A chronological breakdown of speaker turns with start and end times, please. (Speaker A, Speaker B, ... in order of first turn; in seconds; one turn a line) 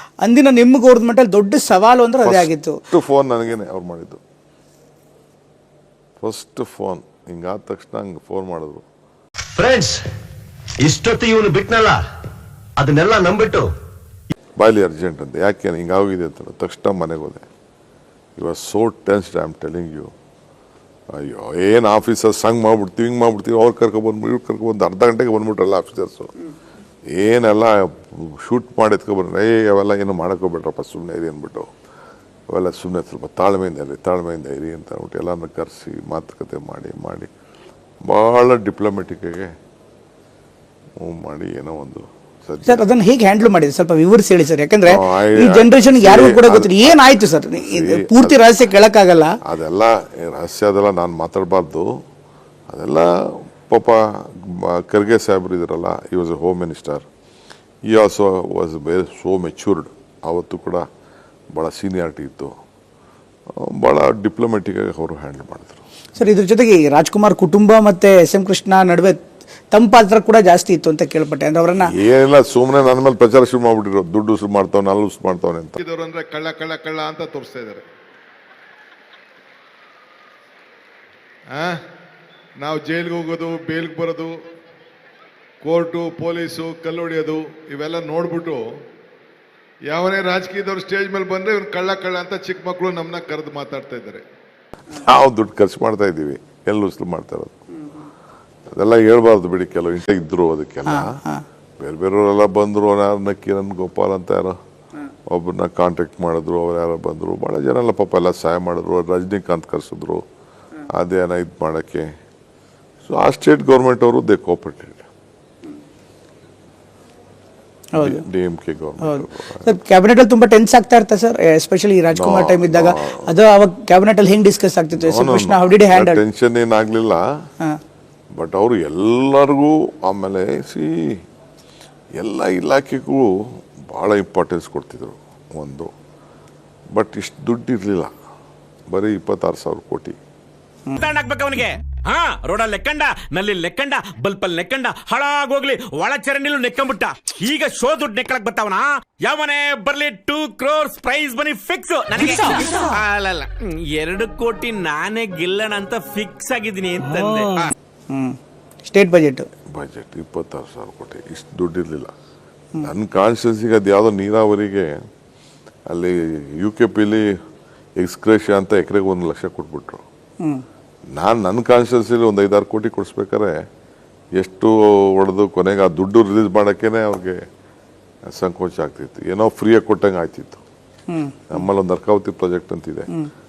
Speaker A: 0.2-2.8
Speaker B: 2.2-4.2
Speaker B: 6.2-8.8
Speaker C: 9.6-10.0
Speaker C: 10.8-12.0
Speaker C: 12.8-13.7
Speaker B: 14.6-17.4
Speaker B: 18.4-20.1
Speaker B: 21.1-26.3
Speaker B: 27.1-31.7
Speaker B: 32.5-37.3
Speaker B: 38.0-39.5
Speaker B: 41.0-42.9
Speaker A: 42.6-49.3
Speaker B: 44.9-47.0
Speaker B: 47.6-48.4
Speaker B: 49.4-51.9
Speaker B: 52.7-57.0
Speaker B: 57.9-60.8
Speaker B: 61.5-62.5
Speaker B: 63.6-65.8
Speaker A: 66.2-69.2
Speaker A: 69.7-71.9
Speaker B: 71.8-75.8
Speaker D: 75.8-77.8
Speaker D: 81.5-81.8
Speaker D: 82.6-84.3
Speaker D: 85.6-88.7
Speaker D: 89.9-94.2
Speaker B: 94.9-97.6
Speaker B: 98.7-101.2
Speaker A: 100.9-101.4
Speaker B: 101.8-104.6
Speaker B: 105.3-110.2
Speaker B: 110.9-112.1
Speaker B: 113.0-115.1
Speaker A: 118.0-118.2
Speaker B: 118.0-119.7
Speaker A: 119.0-126.2
Speaker B: 122.1-123.3
Speaker B: 124.9-127.2
Speaker B: 128.3-131.2
Speaker B: 132.2-133.3
Speaker B: 133.8-135.9
Speaker B: 136.9-138.1
Speaker B: 138.9-140.2
Speaker E: 140.9-157.7
Speaker A: 158.1-159.5
Speaker B: 159.7-162.1
Speaker B: 162.8-164.9
Speaker B: 165.9-167.3
Speaker B: 168.0-170.0
Speaker B: 171.1-173.6
Speaker B: 174.3-177.4
Speaker B: 178.3-180.6
Speaker A: 181.1-181.6
Speaker B: 181.5-183.1